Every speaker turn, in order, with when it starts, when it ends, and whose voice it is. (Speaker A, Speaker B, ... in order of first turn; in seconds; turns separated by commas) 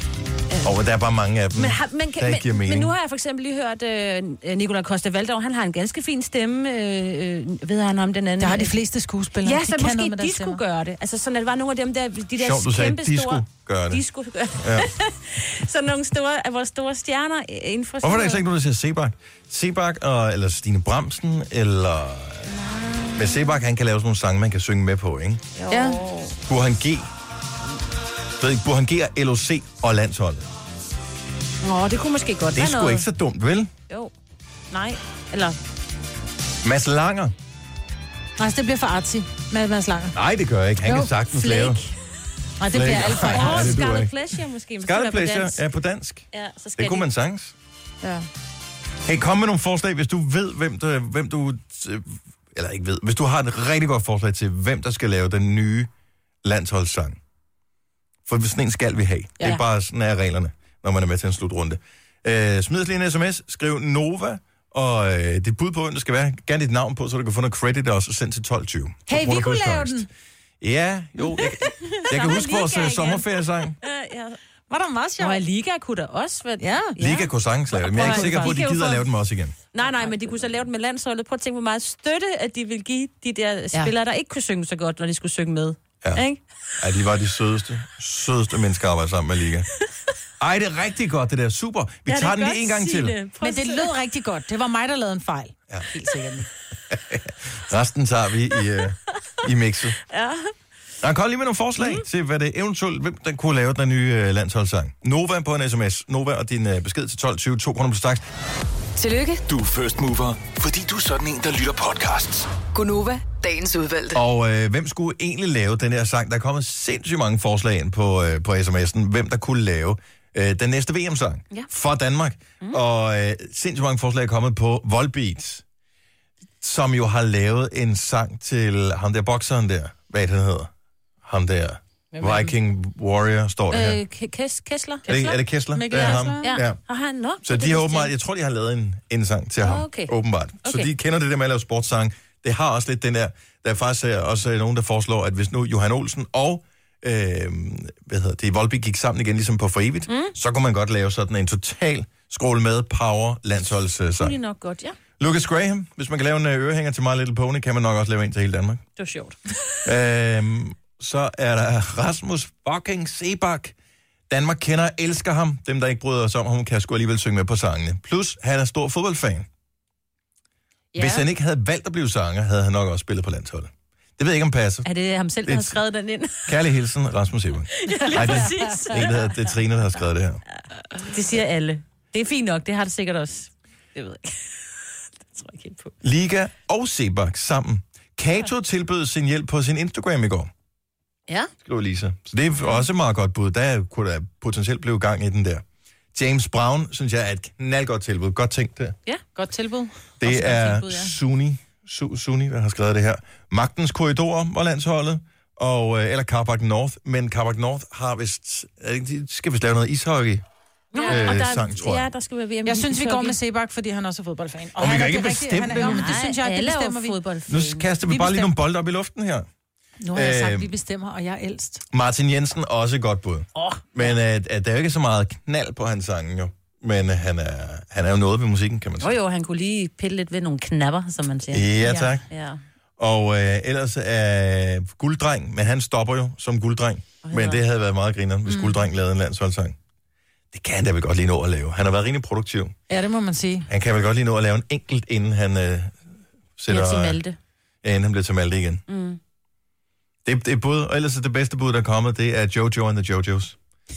Speaker A: 0.6-2.9, Speaker B: 1.5-8.8, Speaker C: 8.4-10.6, Speaker B: 9.4-18.4, Speaker A: 12.4-14.0, Speaker A: 14.6-14.9, Speaker A: 18.0-22.5, Speaker B: 22.5-23.6, Speaker A: 23.1-25.4, Speaker B: 25.6-26.4, Speaker C: 25.7-26.0, Speaker A: 26.5-27.1, Speaker A: 28.4-30.4, Speaker B: 31.6-33.0, Speaker A: 32.5-33.7, Speaker B: 34.7-35.6, Speaker A: 36.6-37.3, Speaker C: 38.4-40.1, Speaker A: 40.1-41.8, Speaker C: 40.8-41.1, Speaker B: 41.3-41.9, Speaker C: 42.6-43.7, Speaker A: 42.7-46.2, Speaker B: 42.8-45.6, Speaker B: 46.3-47.0, Speaker A: 46.8-47.5, Speaker A: 49.0-55.9, Speaker A: 56.4-57.2, Speaker A: 58.2-70.1, Speaker C: 69.1-70.1, Speaker A: 70.6-73.8, Speaker B: 71.7-74.4, Speaker C: 74.7-75.4, Speaker B: 75.2-79.1, Speaker C: 76.6-77.0, Speaker A: 77.0-79.6, Speaker C: 78.0-78.6, Speaker B: 79.7-86.4, Speaker C: 79.8-80.1, Speaker A: 86.8-89.7, Speaker A: 90.4-93.2, Speaker B: 92.1-93.9, Speaker C: 93.4-96.5, Speaker A: 96.9-100.0, Speaker B: 100.1-100.5, Speaker A: 101.0-108.2, Speaker B: 101.8-102.0, Speaker D: 109.0-109.4, Speaker E: 109.5-112.5, Speaker D: 112.7-114.2, Speaker A: 114.1-125.6, Speaker A: 126.6-130.7, Speaker A: 131.2-134.0, Speaker B: 132.2-132.5, Speaker B: 133.7-135.4, Speaker A: 135.1-136.8, Speaker C: 135.7-136.6, Speaker B: 135.9-138.1, Speaker A: 137.4-154.4, Speaker B: 139.6-140.1, Speaker B: 140.6-140.9, Speaker B: 154.2-155.0, Speaker A: 155.2-158.8, Speaker B: 159.0-159.8, Speaker A: 159.8-163.7, Speaker A: 164.3-169.5, Speaker A: 170.9-174.9, Speaker B: 174.8-176.6, Speaker A: 175.4-175.8, Speaker A: 176.4-180.4, Speaker B: 177.7-179.5, Speaker B: 180.9-184.6, Speaker B: 185.3-185.9, Speaker A: 186.0-190.5, Speaker B: 191.3-191.5, Speaker A: 191.6-198.9, Speaker C: 199.3-201.0, Speaker A: 200.2-210.4, Speaker B: 200.3-200.8, Speaker B: 210.9-213.4, Speaker C: 210.9-211.3, Speaker A: 211.1-212.1, Speaker C: 212.7-217.2, Speaker A: 214.8-216.2, Speaker B: 215.7-217.9, Speaker A: 217.5-219.5, Speaker C: 218.1-218.5, Speaker C: 220.0-221.8, Speaker A: 220.1-220.7, Speaker A: 221.9-229.1, Speaker B: 229.0-232.6, Speaker A: 231.5-232.2, Speaker C: 231.8-232.1, Speaker A: 233.0-239.8, Speaker B: 237.2-237.6, Speaker C: 238.5-238.8, Speaker A: 240.5-242.7, Speaker C: 242.9-243.7, Speaker A: 243.7-245.9, Speaker A: 246.6-247.2, Speaker B: 246.7-247.3, Speaker A: 247.8-248.8, Speaker B: 248.9-249.2, Speaker A: 250.2-253.6